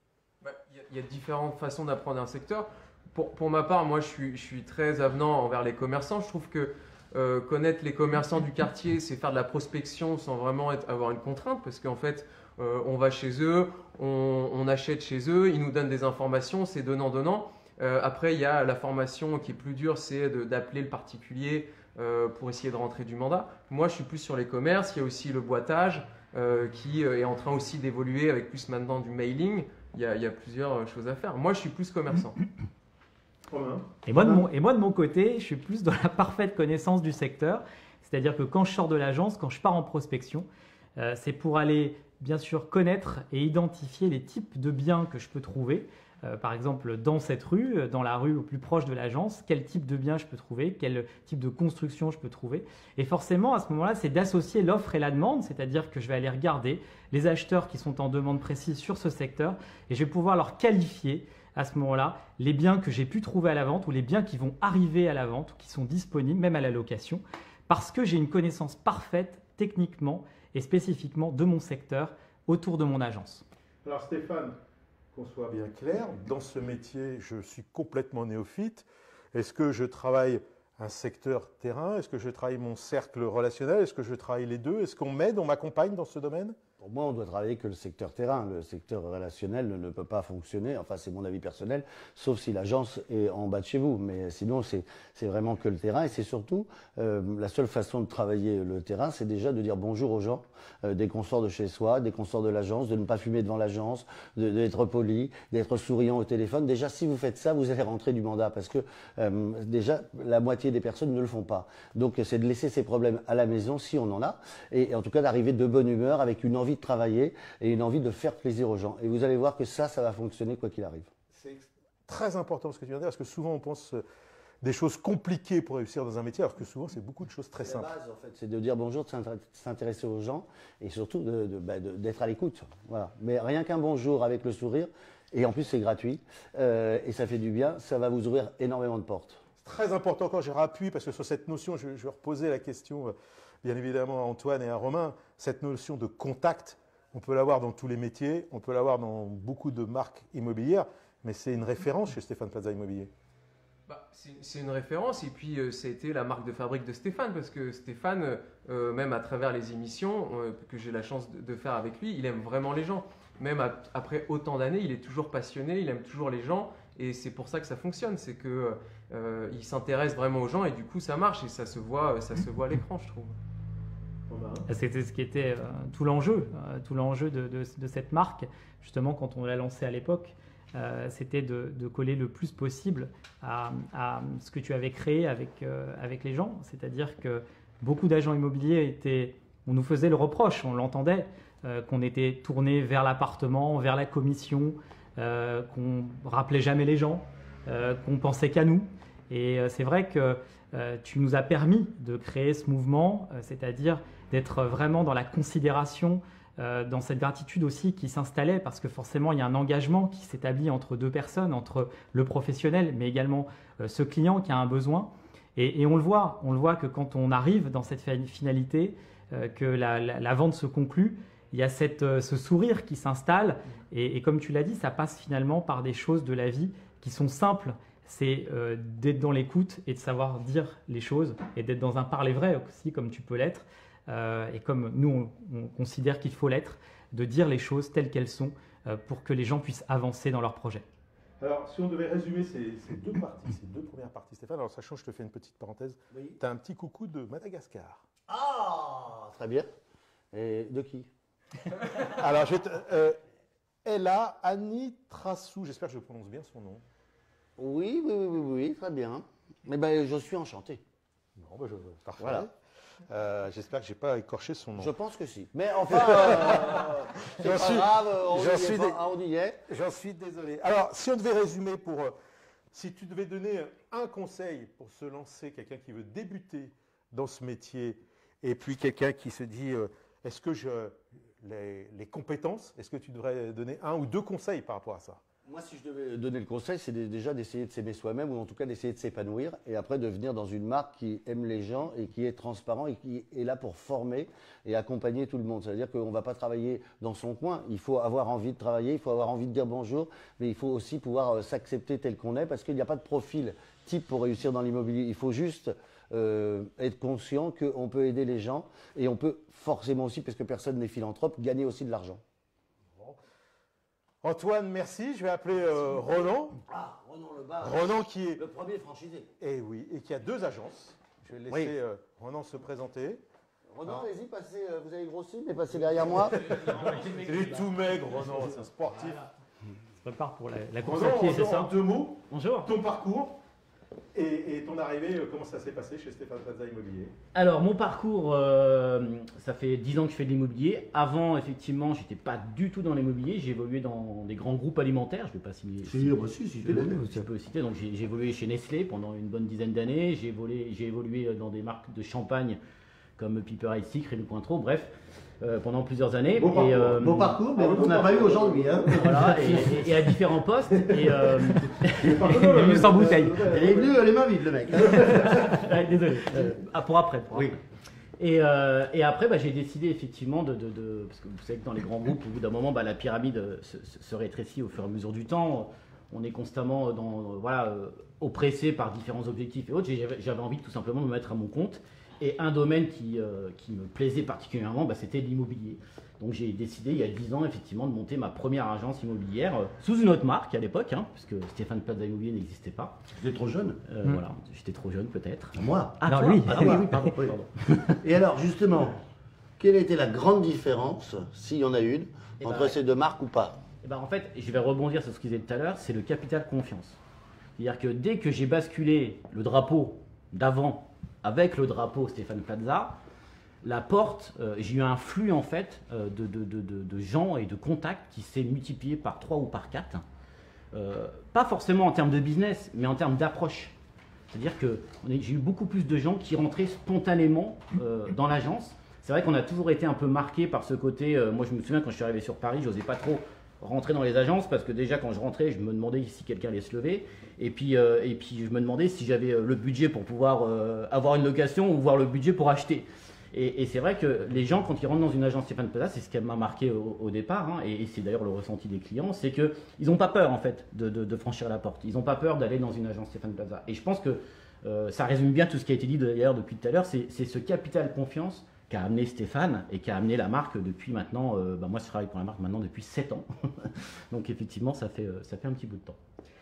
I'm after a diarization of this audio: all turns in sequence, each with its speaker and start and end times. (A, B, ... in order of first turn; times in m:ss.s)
0:00.4-0:32.4 A
0:33.5-0:34.4 B
0:34.0-1:13.4 C
1:13.8-1:14.6 B
1:15.1-1:26.6 B
1:26.8-2:01.1 D
2:01.3-2:04.0 B
2:04.6-2:07.9 B
2:07.6-2:19.4 D
2:19.6-2:33.1 B
2:33.9-2:53.4 A
2:54.3-2:54.7 B
2:54.7-4:00.8 C
4:01.4-4:08.0 B
4:06.1-4:06.4 D
4:08.3-4:09.7 D
4:10.3-4:11.1 D
4:11.9-4:13.2 B
4:13.8-4:16.8 B
4:17.6-4:20.8 D
4:21.4-4:22.5 B
4:22.2-4:22.5 D
4:23.1-4:24.9 B
4:24.8-4:29.6 D
4:25.8-4:29.0 B
4:29.7-4:32.2 B
4:32.7-4:45.2 B
4:45.4-5:12.2 D
5:14.2-5:16.6 B
5:16.7-5:19.3 D
5:17.6-5:18.4 B
5:19.4-5:23.2 B
5:21.5-5:21.7 D
5:23.7-5:26.6 D
5:26.0-5:29.3 B
5:26.5-5:27.7 E
5:30.0-5:31.7 C
5:30.8-5:33.4 B
5:32.3-5:32.7 E
5:34.1-5:37.1 B
5:37.3-5:52.6 E
5:45.9-5:47.3 D
5:53.2-5:57.4 E
5:56.4-5:59.9 B
5:56.6-6:00.0 D
5:58.9-6:02.8 E
6:00.8-6:04.0 B
6:02.0-6:03.4 C
6:03.4-6:05.6 D
6:04.8-6:07.6 E
6:05.1-6:07.2 C
6:08.2-6:33.0 E
6:33.1-6:33.8 D
6:33.9-6:38.0 E
6:35.6-6:37.4 D
6:36.1-6:36.8 C
6:38.0-6:39.0 D
6:39.6-6:43.6 D
6:42.4-6:42.8 E
6:43.8-6:47.0 E
6:47.6-6:53.0 E
6:53.6-7:00.0 E
7:00.7-7:03.7 E
7:04.3-7:46.0 E